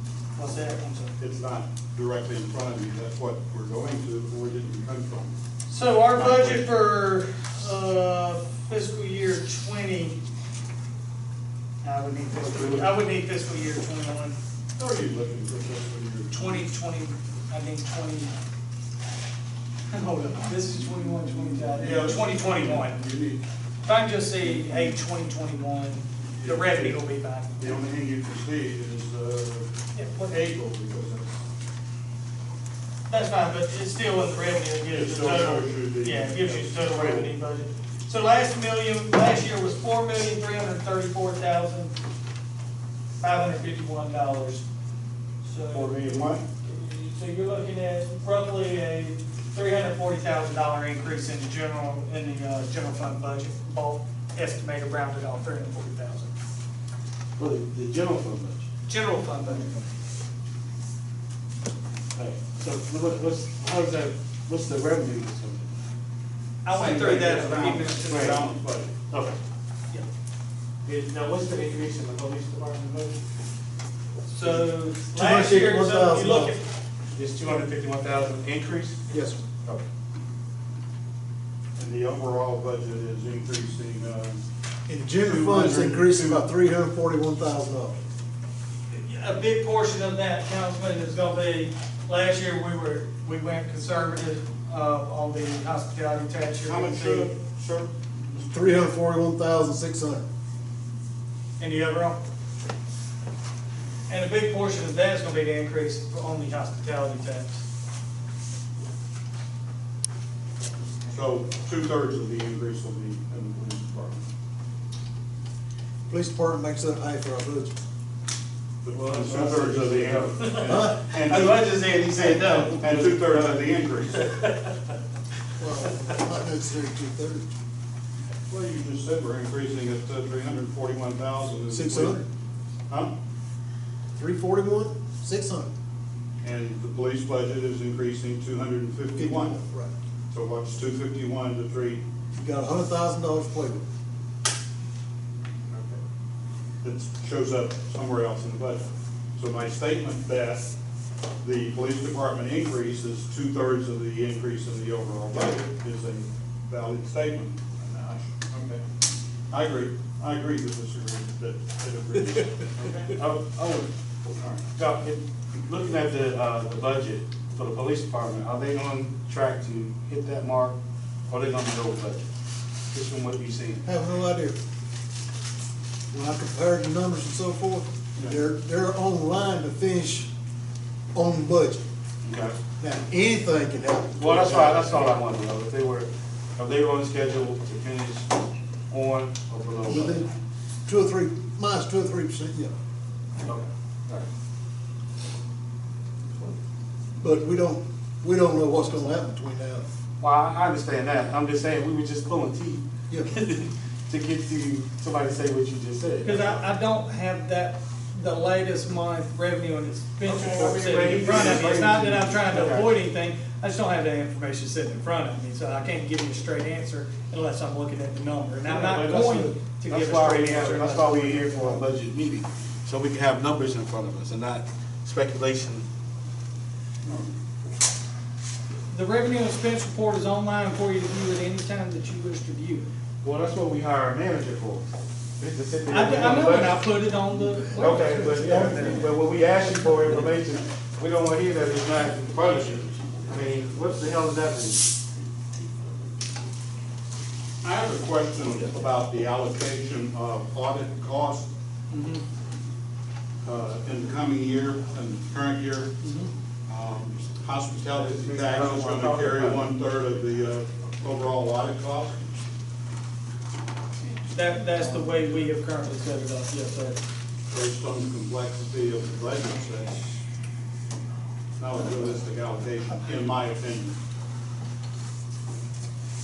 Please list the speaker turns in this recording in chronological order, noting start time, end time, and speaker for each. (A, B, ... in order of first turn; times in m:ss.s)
0:00.4-0:01.2 A
0:01.2-0:05.3 B
0:05.7-0:10.2 A
0:06.2-0:06.6 B
0:11.8-0:14.4 A
0:12.4-0:12.8 C
0:14.8-0:16.5 B
0:16.3-0:18.3 A
0:19.9-0:23.0 A
0:21.8-0:23.4 B
0:23.8-0:27.6 A
0:26.4-0:27.0 B
0:27.6-0:29.7 B
0:29.9-0:30.4 A
0:30.3-0:31.3 B
0:33.1-0:41.9 A
0:34.9-0:37.3 B
0:43.2-0:44.6 A
0:45.4-0:56.3 A
0:45.7-0:46.4 C
0:57.4-0:58.6 C
0:58.9-0:59.8 A
1:02.1-1:05.7 C
1:06.6-1:08.4 A
1:06.7-1:08.9 B
1:08.0-1:08.4 C
1:09.1-1:09.4 C
1:10.8-1:13.2 C
1:14.3-1:16.6 A
1:15.1-1:16.5 D
1:17.1-1:19.0 C
1:19.1-1:19.4 D
1:21.8-1:24.4 B
1:24.9-1:28.0 D
1:25.2-1:26.5 B
1:28.9-1:37.3 A
1:36.6-1:38.4 B
1:38.4-1:40.2 D
1:41.6-1:42.2 A
1:44.1-1:47.6 A
1:51.1-1:54.3 B
1:56.1-1:57.7 D
1:58.8-2:04.2 B
1:58.9-2:04.8 C
2:00.6-2:01.0 D
2:05.6-2:07.5 D
2:08.5-2:12.2 B
2:11.7-2:12.2 D
2:12.9-2:13.1 B
2:14.2-2:15.7 D
2:16.4-2:19.6 B
2:19.1-2:19.9 D
2:20.3-2:22.0 B
2:22.3-2:23.8 D
2:25.7-2:26.0 B
2:26.8-2:30.7 B
2:31.4-2:38.8 B
2:39.5-2:43.2 B
2:43.1-2:43.9 C
2:44.3-2:44.6 B
2:44.7-2:52.3 C
2:52.9-2:53.8 C
2:53.8-2:54.6 D
2:56.1-3:00.3 D
3:01.1-3:01.8 D
3:02.2-3:02.6 C
3:02.8-3:04.7 D
3:04.2-3:08.3 C
3:04.4-3:05.0 B
3:08.9-3:10.3 C
3:09.8-3:10.3 D
3:10.8-3:12.7 D
3:13.4-3:14.3 C
3:17.2-3:19.9 D
3:20.2-3:26.6 C
3:26.2-3:41.8 A
3:30.2-3:33.0 C
3:38.6-3:45.8 C
3:47.0-3:47.3 B
3:48.9-3:52.9 A
3:53.2-3:54.9 C
3:55.4-3:56.8 C
3:55.9-4:00.2 A
3:57.8-4:04.9 C
3:58.0-3:58.9 D
4:07.6-4:11.5 B
4:11.9-4:12.2 A
4:13.4-4:15.9 B
4:16.0-4:16.3 A
4:16.7-4:22.2 B
4:18.0-4:19.7 C
4:24.3-4:27.0 A
4:27.5-4:30.2 B
4:31.6-4:34.0 B